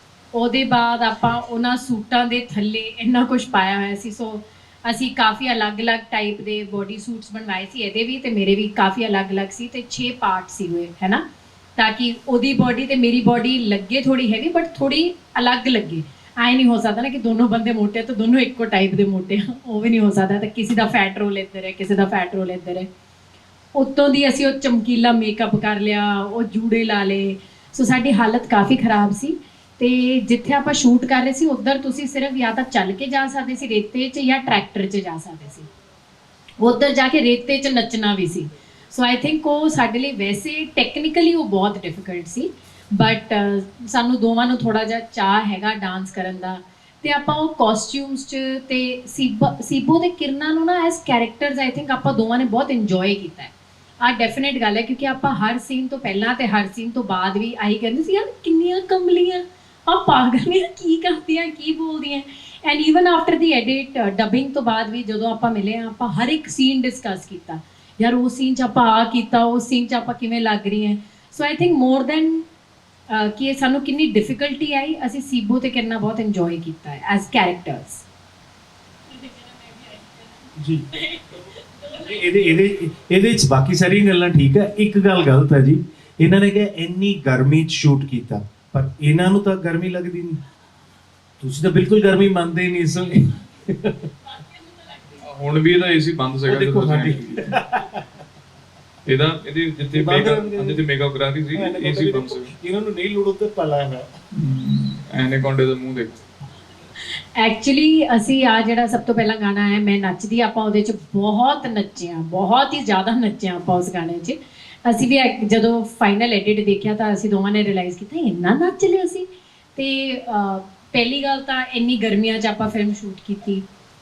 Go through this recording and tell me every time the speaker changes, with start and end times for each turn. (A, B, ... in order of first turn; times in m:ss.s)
0:00.3-0:11.2 A
0:11.8-0:22.9 A
0:23.8-0:35.7 A
0:36.6-1:12.5 A
1:13.1-1:18.0 A
1:19.2-1:20.4 A
1:20.6-1:20.9 B
1:21.0-1:22.1 A
1:21.9-1:30.4 B
1:31.4-1:34.1 B
1:35.2-1:37.5 C
1:36.5-1:38.0 B
1:39.1-1:42.5 C
1:39.9-1:40.8 B
1:41.6-1:44.1 B
1:44.3-1:46.1 C
1:47.4-2:03.7 A